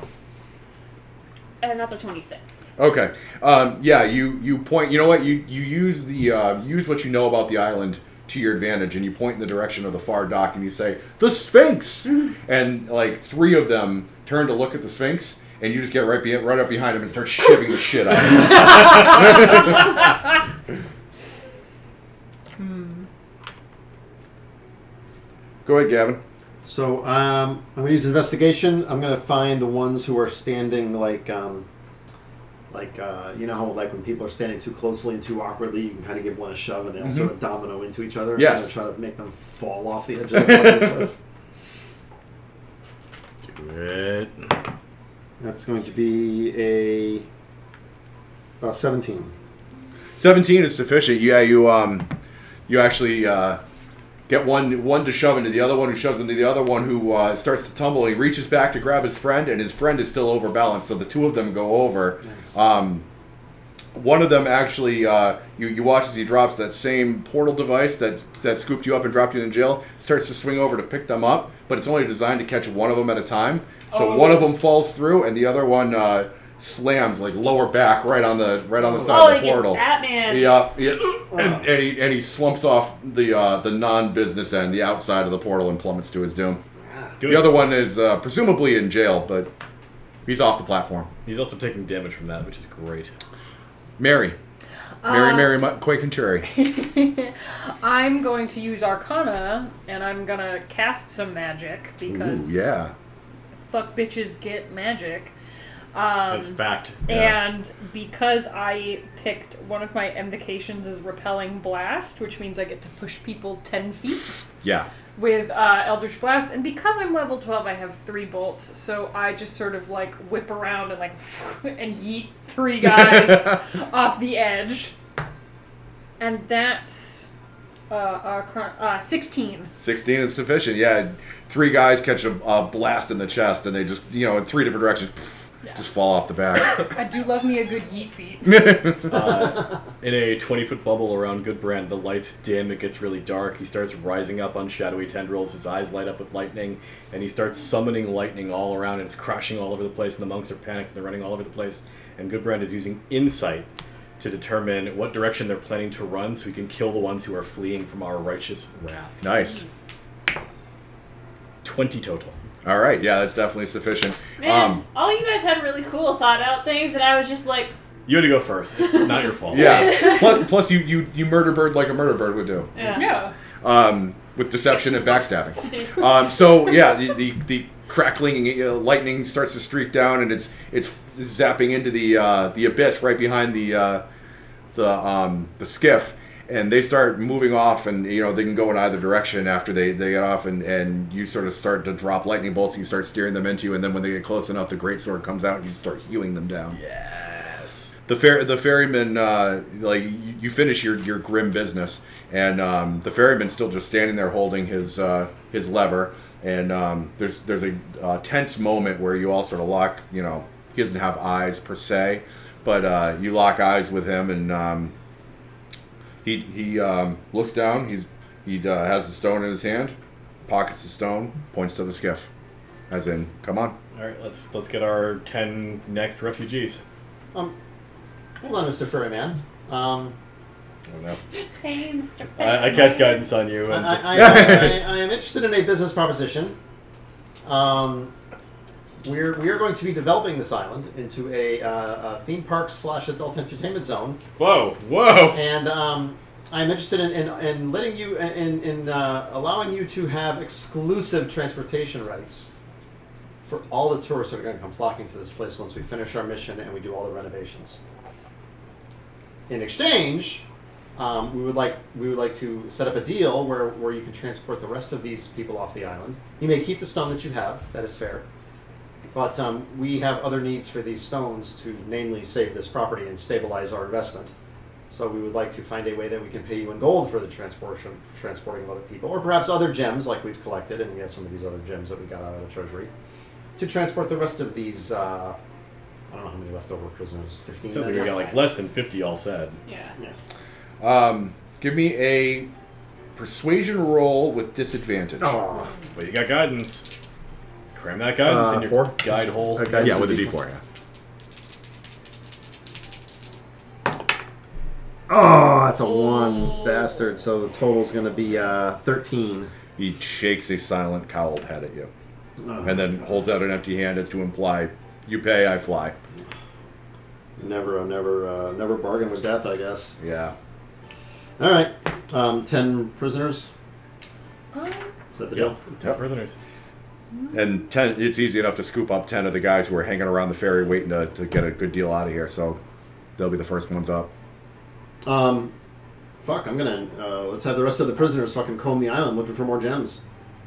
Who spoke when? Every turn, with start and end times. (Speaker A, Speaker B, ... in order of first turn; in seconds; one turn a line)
Speaker A: 1.6-2.7
Speaker B: 2.8-19.9
Speaker C: 22.6-23.1
Speaker B: 25.6-26.2
Speaker D: 26.6-31.7
Speaker D: 32.7-41.1
Speaker B: 38.4-38.8
Speaker B: 40.4-41.1
Speaker E: 43.5-44.5
Speaker D: 45.4-47.3
Speaker D: 48.6-49.3
Speaker B: 50.2-52.1
Speaker B: 52.7-53.6
Speaker B: 54.3-63.0
Speaker D: 62.2-62.5
Speaker B: 63.9-86.6
Speaker A: 73.9-74.5
Speaker D: 78.8-79.4
Speaker A: 79.1-80.7
Speaker E: 87.2-87.7
Speaker B: 87.2-89.5
Speaker B: 90.2-91.1
Speaker E: 91.2-93.1
Speaker B: 94.0-94.3
Speaker C: 95.0-95.6
Speaker B: 95.0-96.5
Speaker C: 96.4-102.7
Speaker B: 102.0-102.9
Speaker C: 103.7-105.3
Speaker C: 105.9-114.4
Speaker E: 106.3-107.0
Speaker B: 107.1-107.4
Speaker B: 114.6-114.9
Speaker C: 115.2-124.9
Speaker C: 126.2-127.3
Speaker C: 127.9-129.7
Speaker B: 129.8-136.8
Speaker C: 136.9-138.9
Speaker B: 138.4-139.1
Speaker E: 139.1-153.7
Speaker E: 154.2-159.2
Speaker B: 159.2-159.6
Speaker E: 161.6-162.4
Speaker B: 162.6-164.8
Speaker A: 164.4-167.7
Speaker E: 168.1-170.0
Speaker B: 169.5-172.7
Speaker A: 169.5-170.5
Speaker A: 172.7-173.1
Speaker C: 172.9-173.3
Speaker B: 173.6-184.0
Speaker A: 175.6-176.0
Speaker B: 184.7-196.8
Speaker E: 196.7-197.9
Speaker B: 198.1-214.9
Speaker B: 216.2-222.3
Speaker B: 222.9-223.8
Speaker E: 223.9-226.8
Speaker D: 228.4-230.2
Speaker E: 230.9-231.2
Speaker A: 231.4-233.3
Speaker E: 232.4-234.7
Speaker D: 233.7-236.6
Speaker B: 234.1-234.9
Speaker D: 237.4-238.1
Speaker D: 239.0-244.2
Speaker E: 244.4-245.5
Speaker D: 245.3-252.5
Speaker D: 253.4-257.8
Speaker D: 259.5-268.2
Speaker D: 269.1-274.3
Speaker D: 274.9-282.9
Speaker D: 283.6-285.4
Speaker D: 286.1-288.4
Speaker E: 287.7-289.6
Speaker A: 289.6-289.9
Speaker B: 290.8-292.5
Speaker B: 293.1-295.4
Speaker D: 295.2-295.7
Speaker E: 295.9-296.9
Speaker E: 297.7-300.2
Speaker D: 298.2-300.4
Speaker B: 299.6-300.6
Speaker D: 305.1-309.5
Speaker B: 309.8-311.9
Speaker D: 312.4-312.9
Speaker B: 312.6-316.0
Speaker D: 317.4-319.9
Speaker B: 320.0-320.3
Speaker D: 321.4-323.5
Speaker C: 324.5-324.9
Speaker D: 325.1-325.6
Speaker E: 325.3-326.4
Speaker B: 327.3-332.6
Speaker B: 333.2-334.1
Speaker D: 335.0-335.5
Speaker D: 336.2-340.0